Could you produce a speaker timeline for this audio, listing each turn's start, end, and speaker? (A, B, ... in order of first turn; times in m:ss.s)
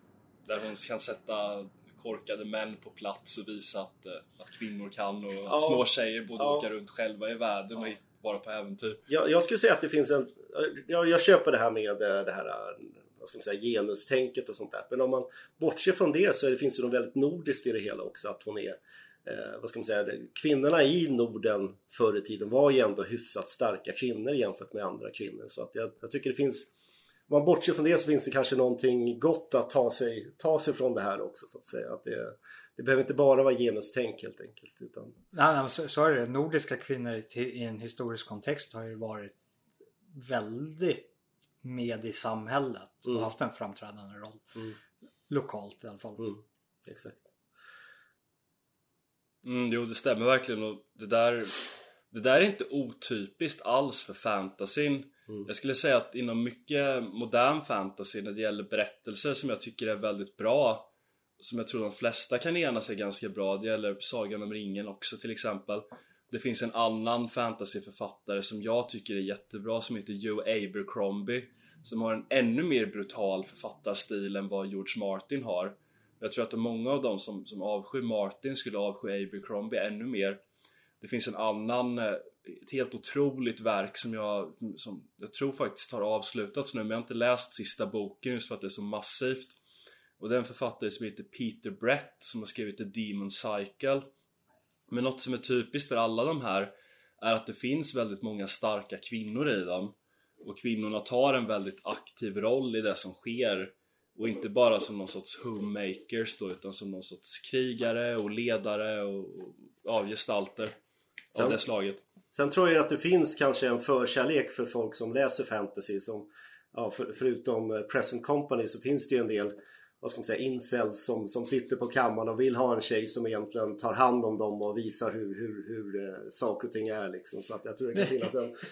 0:00.5-0:09.0 A
0:05.5-0:05.8 B
0:06.4-0:06.7 B
0:09.1-0:26.7 B
0:27.3-0:35.2 B
0:35.3-0:39.4 C
0:40.1-0:41.1 C
0:41.6-0:44.6 C
0:45.3-0:46.3 C
0:46.2-0:47.3 B
0:49.4-1:20.4 A
1:21.0-1:29.6 A
1:30.2-1:34.1 A
1:34.9-1:50.8 A
1:51.3-1:52.0 A
1:51.4-1:51.6 B
1:52.3-2:08.6 B